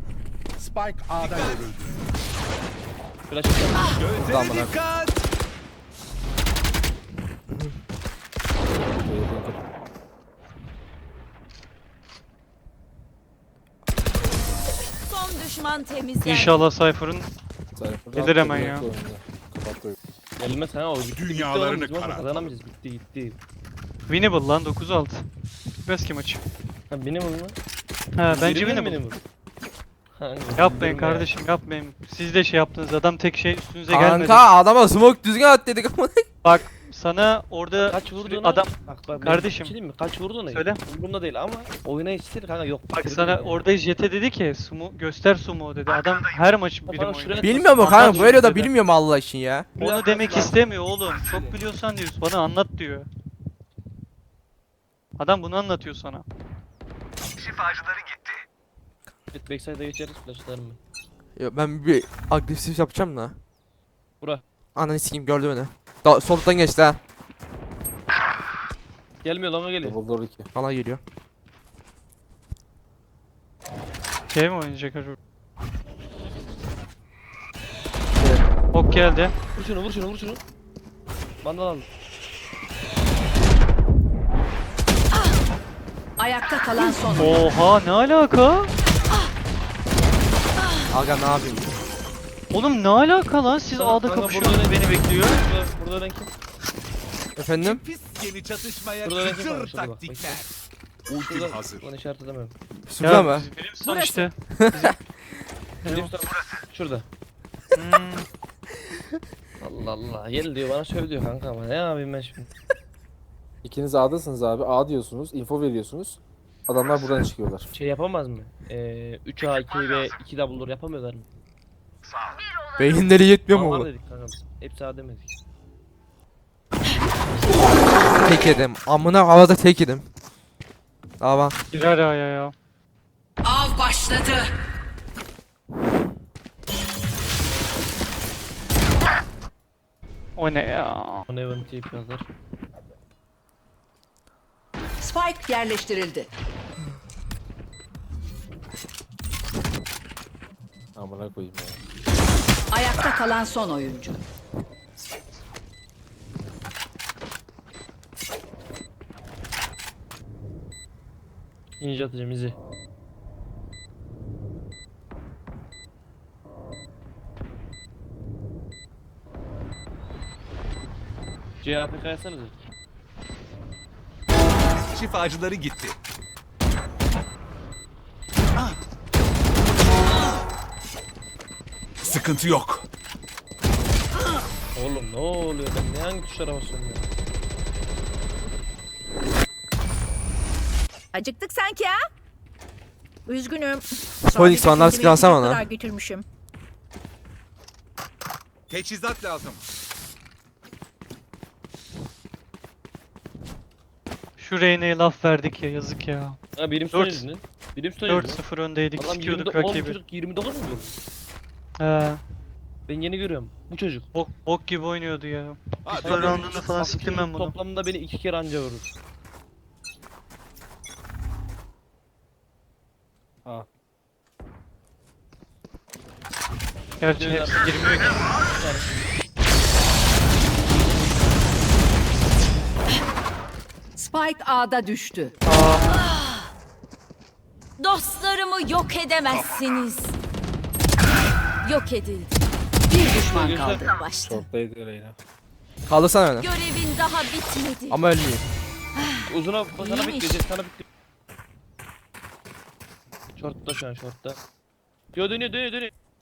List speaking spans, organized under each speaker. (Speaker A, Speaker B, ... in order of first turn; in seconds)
Speaker A: 0.6-2.0, 4.0-5.2, 21.1-22.6, 97.6-100.5, 101.1-101.8, 174.9-176.0, 182.0-182.9, 198.7-199.6, 215.9-217.1
Speaker B: 3.3-4.0, 20.4-23.4, 26.9-27.6, 28.3-29.2, 30.1-31.3, 37.8-43.7, 46.9-48.7, 49.8-50.6, 59.3-60.8, 69.2-70.0, 79.5-80.4, 81.4-81.9, 93.7-96.3, 99.0-100.5, 101.2-102.5, 105.8-107.1, 109.6-112.5, 117.7-121.3, 123.5-125.3, 141.3-142.3, 161.8-162.6, 171.6-172.6, 184.8-187.1, 206.6-208.4, 209.0-210.9, 212.9-214.1, 215.9-218.9, 227.1-229.1, 243.1-243.9, 249.3-250.8, 253.4-254.4, 255.1-255.9
Speaker C: 4.2-4.8, 33.9-36.3, 47.4-49.7, 61.4-63.4, 64.8-67.0, 70.5-71.0, 90.9-91.7, 97.4-97.8, 102.9-103.5, 104.5-105.0, 122.7-123.9, 128.1-130.1, 131.2-131.6, 194.3-195.7, 245.9-246.5, 247.9-248.4
Speaker D: 9.0-9.7, 17.8-19.9, 69.8-70.5, 78.2-78.5, 113.6-117.7, 151.0-151.8, 244.3-245.2
Speaker E: 15.1-16.7, 237.8-240.1, 241.6-242.3, 243.9-244.4, 246.4-248.0, 248.9-249.2, 250.0-250.3
Speaker F: 16.2-17.3, 18.2-18.9, 24.1-25.3, 25.8-26.4, 28.2-29.0, 30.6-34.5, 36.4-39.8, 40.5-40.8, 42.9-48.3, 49.8-53.1, 55.2-56.2, 74.3-75.2, 78.7-79.3, 87.2-88.7, 92.5-95.4, 103.0-105.0, 105.8-106.1, 107.8-108.3, 131.7-132.5, 140.4-141.3, 204.4-206.4, 206.9-207.3, 208.0-210.0, 211.8-212.2, 214.2-217.6, 227.0-228.2
Speaker G: 86.2-87.5, 103.9-104.3, 133.4-134.5, 145.0-146.3, 152.7-154.2, 234.0-235.4, 242.9-243.9
Speaker H: 191.1-192.0, 193.3-196.2